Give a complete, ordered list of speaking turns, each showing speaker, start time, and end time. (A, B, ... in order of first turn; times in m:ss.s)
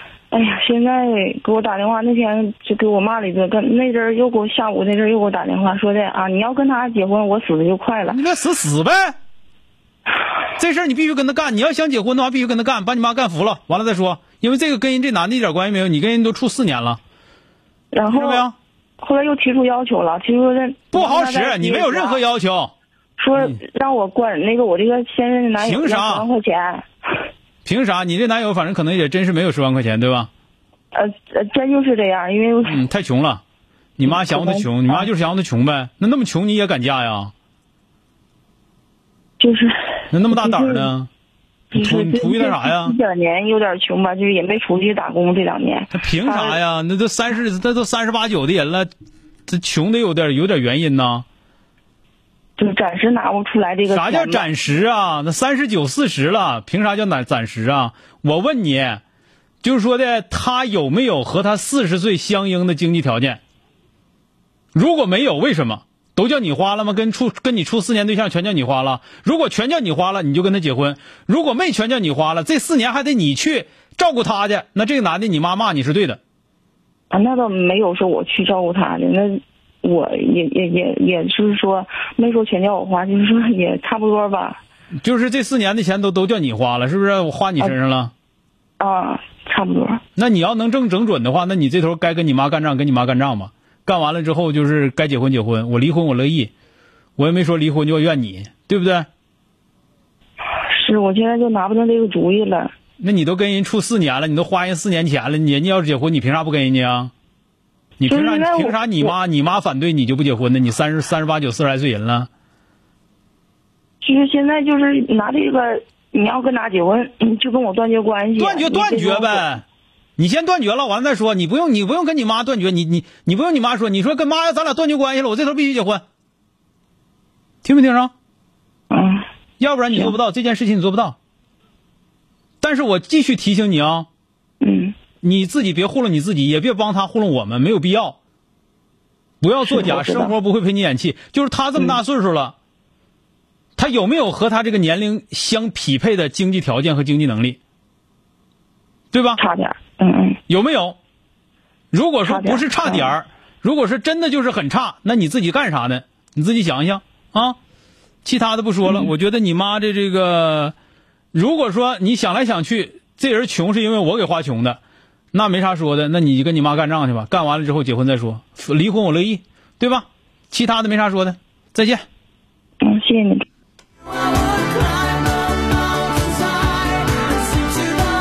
0:00.3-0:08.2 A
0:08.1-0:09.1 B
0:10.6-0:17.0 B
0:17.9-0:18.4 A
0:18.1-0:18.5 B
0:19.0-0:22.2 A
0:20.9-0:22.7 B
0:23.2-0:26.8 A
0:25.6-0:26.2 B
0:27.6-0:30.3 B
0:30.9-0:32.8 A
0:32.6-0:33.4 B
0:34.0-0:37.3 B
0:34.0-0:35.1 A
0:39.4-0:40.9 A
0:40.1-0:41.1 B
0:41.7-0:46.6 A
0:41.7-0:43.0 B
0:45.9-0:48.9 B
0:49.5-0:51.2 B
0:52.6-0:54.5 A
0:53.9-0:59.0 B
0:59.6-1:03.4 B
1:04.7-1:16.2 B
1:17.1-1:24.6 A
1:25.0-1:28.1 B
1:28.8-1:30.0 A
1:30.2-1:36.5 B
1:37.2-1:39.1 B
1:40.7-1:42.7 A
1:43.0-1:47.1 B
1:48.0-1:52.3 B
1:48.0-1:49.1 A
1:54.0-1:59.5 A
1:58.4-1:59.6 B
2:00.2-2:06.0 B
2:07.6-2:08.1 B
2:08.9-2:09.3 A
2:09.6-2:11.2 B
2:12.6-2:14.1 B
2:14.6-2:14.9 A
2:15.2-2:18.2 B
2:19.4-2:22.5 B
2:19.6-2:20.3 A
2:23.8-2:27.6 B
2:29.1-2:29.4 B
2:29.4-2:30.4 A
2:30.5-2:31.0 B
2:31.9-2:37.6 B
2:32.2-2:33.1 A
2:38.2-2:40.7 B
2:41.3-2:44.8 B
2:45.3-2:52.0 B
2:52.8-2:53.4 A